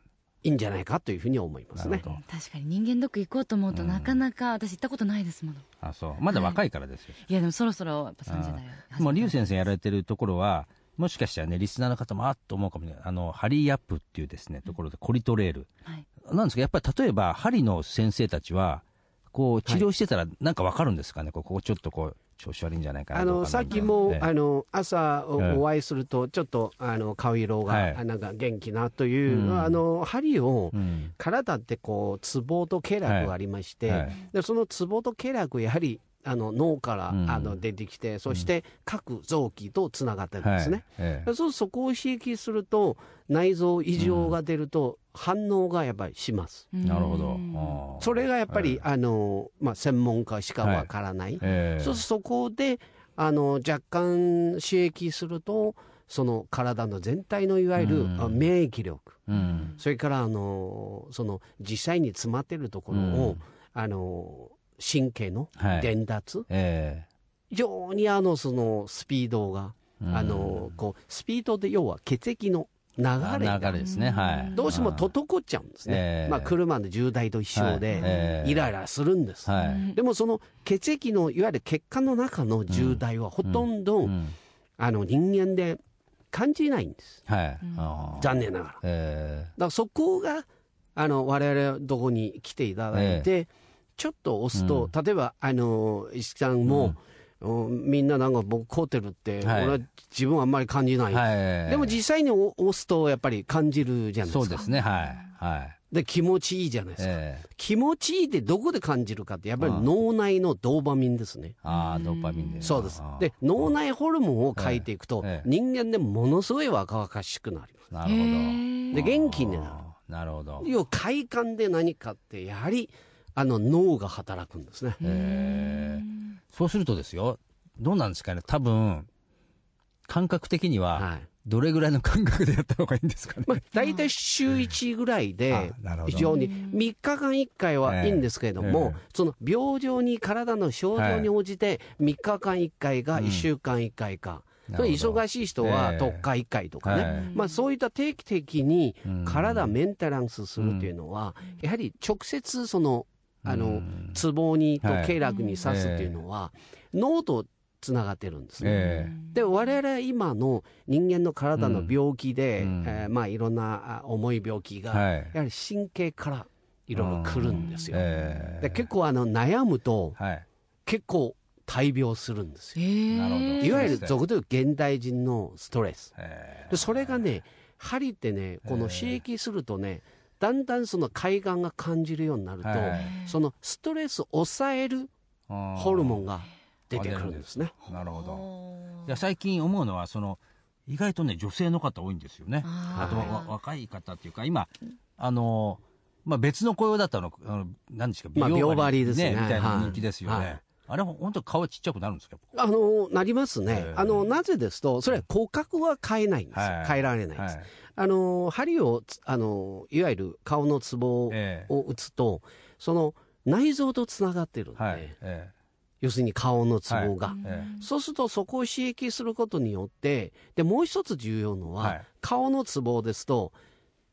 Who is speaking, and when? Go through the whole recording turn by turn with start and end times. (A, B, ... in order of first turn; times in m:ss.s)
0:00.4-0:02.0 A
0:01.8-0:02.2 B
0:02.0-0:05.7 C
0:03.7-0:04.2 B
0:05.8-0:07.2 B
0:06.3-0:06.6 C
0:07.3-0:09.4 C
0:08.3-0:15.7 B
0:16.2-0:24.3 B
0:23.1-0:46.7 A
0:27.7-0:28.0 B
0:29.3-0:29.8 B
0:30.7-0:31.1 B
0:33.1-0:33.3 B
0:33.9-0:34.2 B
0:37.1-0:37.6 B
0:40.4-0:41.3 B
0:44.0-0:44.4 B
0:46.7-0:47.8 C
0:46.8-0:48.8 B
0:48.0-0:59.2 A
0:50.6-0:50.9 B
0:51.4-0:52.0 B
0:57.8-0:58.4 B
0:59.3-0:59.8 B
0:59.3-0:59.8 C
0:59.8-1:06.5 A
1:02.9-1:03.4 B
1:05.6-1:05.9 B
1:06.5-1:07.1 B
1:07.5-1:13.8 A
1:10.0-1:10.7 B
1:13.2-1:15.1 B
1:13.8-1:14.8 C
1:14.5-1:24.2 A
1:15.9-1:16.5 B
1:17.5-1:18.7 B
1:17.9-1:18.4 C
1:19.5-1:19.9 B
1:19.6-1:20.0 C
1:22.7-1:24.4 B
1:24.8-1:25.8 A
1:26.3-1:27.2 A
1:27.3-1:29.5 B
1:27.6-1:28.0 C
1:28.2-1:28.8 A
1:29.6-1:44.6 A
1:32.9-1:33.3 B
1:34.6-1:34.9 B
1:36.7-1:37.0 B
1:39.4-1:39.8 B
1:41.1-1:42.0 B
1:44.2-1:45.8 B
1:44.6-1:45.3 C
1:45.9-1:51.6 A
1:47.0-1:47.4 B
1:49.6-1:49.9 B
1:51.6-1:53.7 B
1:51.7-1:52.8 C
1:52.6-1:57.9 A
1:54.6-1:55.5 B
1:57.9-2:00.7 B
1:58.0-1:59.0 C
1:58.9-1:59.8 A
2:00.6-2:05.0 A
2:05.0-2:06.4 C
2:05.0-2:09.1 B
2:10.1-2:13.6 B
2:11.0-2:11.3 A
2:13.5-2:48.1 A
2:13.8-2:14.0 C
2:15.5-2:16.3 B
2:16.1-2:16.8 C
2:17.8-2:19.0 B
2:21.0-2:21.3 B
2:23.2-2:23.5 B
2:24.7-2:26.2 B
2:26.8-2:27.3 B
2:27.0-2:27.6 C
2:29.0-2:29.7 B
2:30.6-2:30.9 B
2:33.4-2:34.2 B
2:34.8-2:36.2 B
2:35.2-2:35.6 C
2:38.6-2:39.2 B
2:38.7-2:39.3 C
2:41.6-2:42.0 B
2:42.6-2:43.1 B
2:44.9-2:45.4 B
2:47.0-2:48.9 B
2:47.5-2:48.3 C
2:48.6-2:50.2 A
2:50.2-2:50.5 B
2:50.9-2:52.8 A
2:52.8-2:54.0 C
2:53.1-2:54.1 B
2:53.6-2:56.1 A
2:56.2-2:57.2 B
2:56.7-3:05.1 A
2:58.6-2:59.2 B
3:02.6-3:03.2 B
3:02.9-3:03.4 C
3:05.5-3:06.2 B
3:05.8-3:07.7 A
3:06.9-3:08.5 B
3:08.1-3:09.1 C
3:09.0-3:22.4 B
3:12.6-3:13.5 C
3:12.9-3:13.3 A
3:18.4-3:20.6 A
3:22.5-3:35.1 A
3:23.7-3:24.2 B
3:26.5-3:27.7 B
3:31.3-3:31.7 B
3:34.8-3:35.5 B
3:36.0-3:43.6 A
3:36.9-3:37.7 B
3:37.3-3:37.9 C